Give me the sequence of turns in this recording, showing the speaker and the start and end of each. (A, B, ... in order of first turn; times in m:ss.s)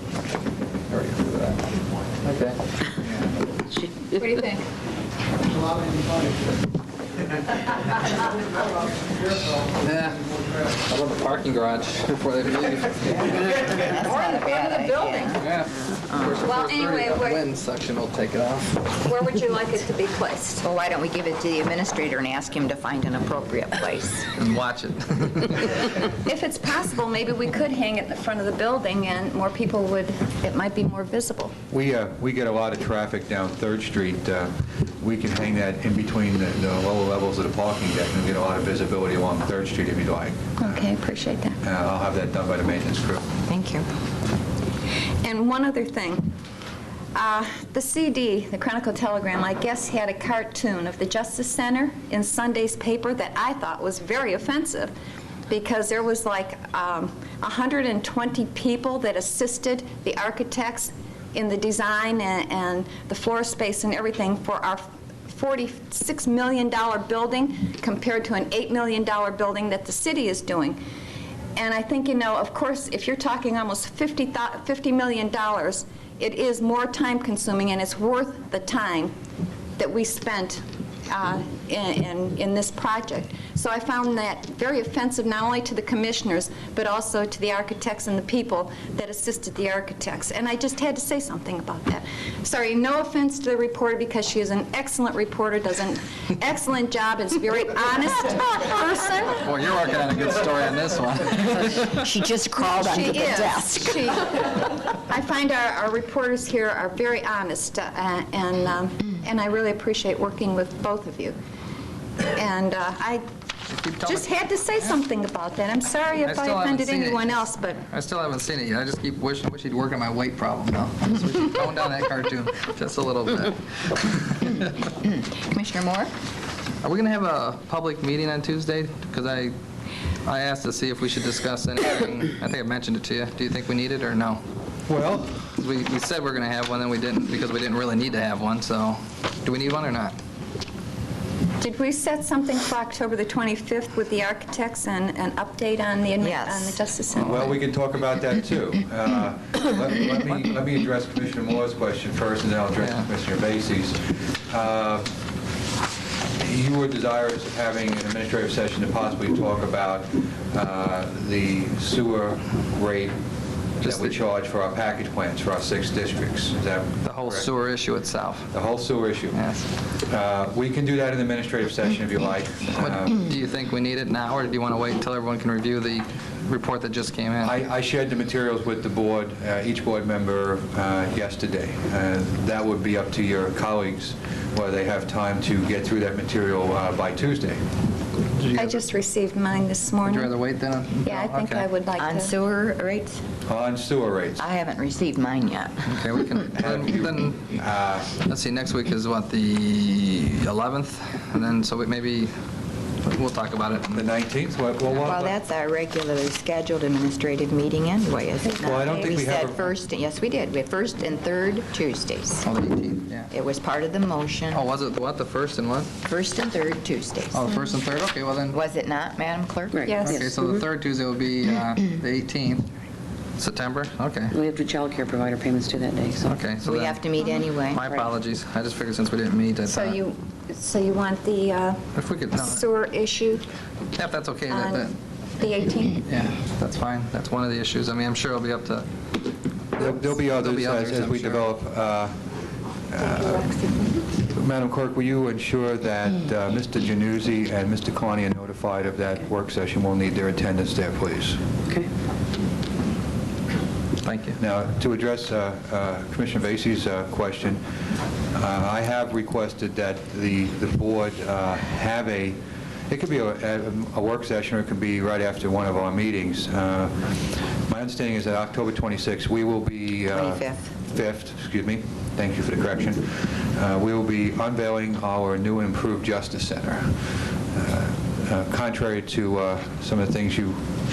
0:00.9-0:01.6 A
0:02.2-0:02.6 A
0:04.1-0:04.6 B
0:09.8-0:13.6 A
0:13.6-0:16.4 C
0:13.8-0:15.5 B
0:15.4-0:18.8 A
0:16.4-0:17.4 B
0:19.0-0:20.6 B
0:20.6-0:24.3 C
0:24.4-0:25.7 A
0:26.1-0:31.5 B
0:31.7-0:40.9 D
0:40.6-0:41.6 B
0:41.6-0:43.3 D
0:43.5-0:43.9 C
0:45.2-0:46.3 B
0:47.1-0:54.9 B
0:55.5-1:10.8 B
1:11.6-1:19.1 B
1:19.8-1:39.5 B
1:39.4-1:42.0 A
1:42.0-1:44.0 C
1:42.8-1:51.4 B
1:52.3-1:53.2 B
1:53.7-1:54.3 A
1:54.0-1:57.8 B
1:56.2-2:04.7 A
2:04.9-2:06.1 C
2:06.8-2:09.5 A
2:10.2-2:14.4 A
2:14.9-2:15.4 D
2:15.5-2:20.2 A
2:21.6-2:27.4 B
2:26.2-2:26.8 C
2:27.2-2:35.1 D
2:32.8-2:33.1 A
2:36.4-2:43.1 D
2:43.8-2:47.5 D
2:43.8-2:44.2 A
2:47.0-2:48.5 A
2:48.5-2:49.4 D
2:49.3-2:49.7 A
2:50.0-2:53.3 D
2:52.8-2:57.5 A
2:57.4-3:07.6 D
3:08.4-3:08.8 A
3:08.5-3:10.3 B
3:10.0-3:11.7 A
3:11.0-3:12.3 B
3:12.0-3:13.2 C
3:13.4-3:14.4 D
3:14.4-3:15.9 C
3:15.8-3:17.5 A
3:16.5-3:18.1 D
3:18.2-3:22.3 A
3:23.0-3:24.1 A
3:23.9-3:25.3 D
3:25.0-3:32.4 C
3:28.4-3:29.7 D
3:32.4-3:33.3 A
3:33.3-3:34.6 C
3:34.5-3:35.9 A
3:36.0-3:37.5 C
3:37.3-3:38.6 A
3:38.5-3:39.9 C
3:39.7-3:40.6 E
3:39.8-3:40.2 B
3:40.0-3:42.7 A
3:43.4-3:44.3 A
3:44.3-3:46.4 E
3:46.2-3:50.0 A
3:46.6-3:47.8 C
3:49.7-3:51.8 B
3:51.9-3:52.6 A
3:52.3-3:53.4 B
3:53.9-3:54.9 A
3:54.5-3:56.0 B
3:56.0-3:58.9 A
3:59.8-4:02.1 D
3:59.8-4:01.5 A
4:02.9-4:03.4 D
4:03.0-4:04.0 B
4:04.2-4:11.4 D
4:14.0-4:14.4 A
4:14.4-4:17.6 D
4:18.3-4:37.0 D
4:30.1-4:30.7 C
4:37.5-4:40.6 D